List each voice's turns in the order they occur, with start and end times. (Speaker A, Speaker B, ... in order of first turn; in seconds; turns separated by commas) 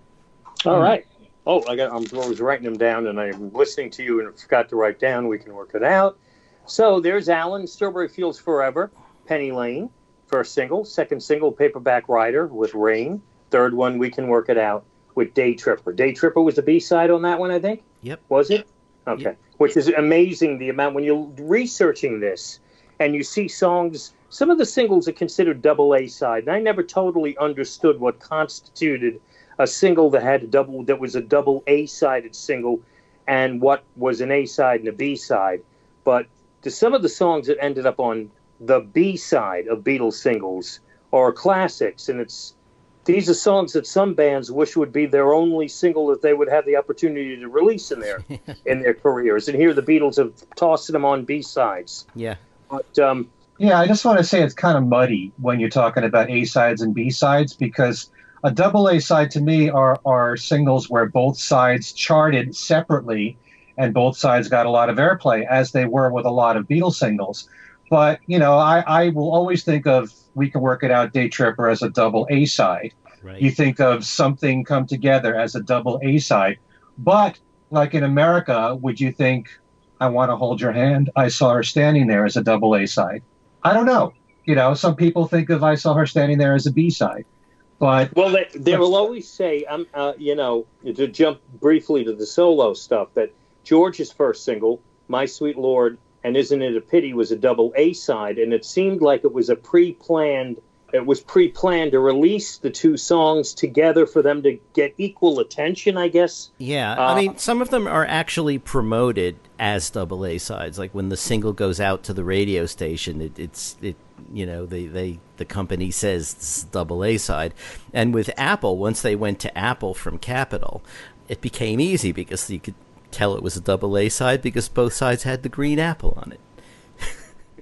Speaker A: 0.7-52.0, Speaker A: 52.7-53.3, Speaker B: 53.6-79.5, Speaker C: 73.2-73.5, Speaker B: 80.0-87.2, Speaker B: 87.8-88.1, Speaker A: 88.1-107.3, Speaker C: 106.6-126.4